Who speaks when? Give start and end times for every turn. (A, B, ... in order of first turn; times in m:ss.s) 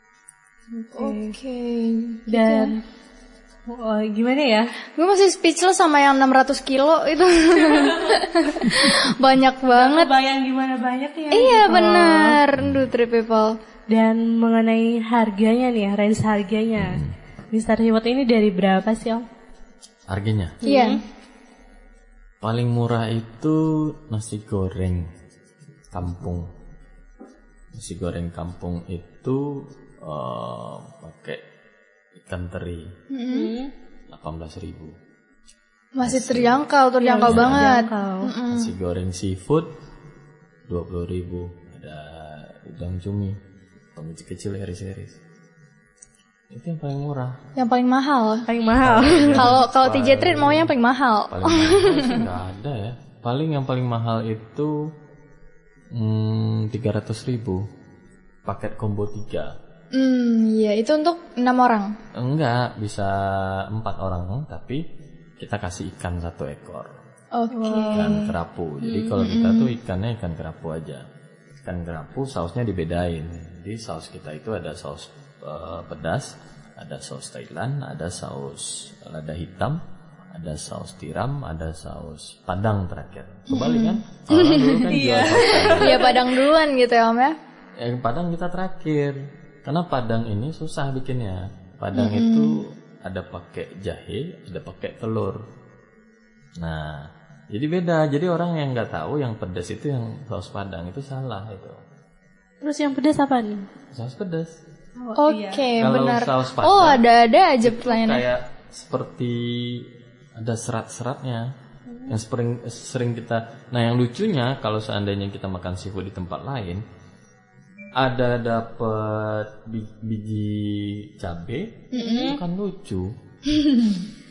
0:00.7-0:01.4 A
0:01.0-0:02.8 B
0:02.3-0:02.8 A
0:03.7-0:04.7 A
0:05.0-0:10.1 B
0:07.6-0:08.4 A
0:09.6-0:12.4 A
0:11.3-0:13.5 B
0:13.9-0:19.2 A
0:16.8-0:17.1 C
0:20.1-0:20.6 C
0:20.6-0:21.0 A
0:20.6-0:21.0 B
0:22.4-0:25.1 C
0:25.9-0:26.5 C
0:27.7-0:31.4 C
0:32.2-0:32.9 C
0:33.1-0:33.5 B
0:33.3-0:33.7 A
0:34.1-0:34.9 C
0:35.9-0:38.7 B
0:36.0-0:36.6 C
0:37.0-0:38.3 A
0:37.2-0:37.7 C
0:38.5-0:39.7 C
0:40.7-0:43.4 C
0:44.0-0:45.2 C
0:46.5-0:47.4 C
0:47.6-0:48.5 B
0:48.4-0:49.6 A
0:48.8-0:50.7 C
0:49.3-0:52.2 B
0:51.3-0:54.8 C
0:55.9-0:57.6 C
0:58.4-0:59.5 C
0:59.9-1:01.9 B
1:02.2-1:04.8 C
1:05.4-1:06.9 C
1:07.3-1:08.3 B
1:07.5-1:08.2 A
1:07.9-1:11.0 C
1:08.8-1:09.2 A
1:09.2-1:09.7 B
1:11.6-1:19.8 C
1:20.3-1:26.1 C
1:23.5-1:24.8 B
1:24.7-1:26.4 A
1:25.8-1:27.3 B
1:27.8-1:35.4 C
1:31.9-1:32.5 B
1:36.6-1:41.8 C
1:42.6-1:43.6 A
1:43.9-1:44.5 C
1:45.0-1:45.7 A
1:45.2-1:48.2 B
1:45.8-1:47.0 C
1:47.6-1:51.5 C
1:51.9-1:52.2 A
1:52.1-1:56.8 C
1:58.0-2:03.1 C
2:01.9-2:02.4 B
2:01.9-2:02.4 A
2:03.5-2:04.0 B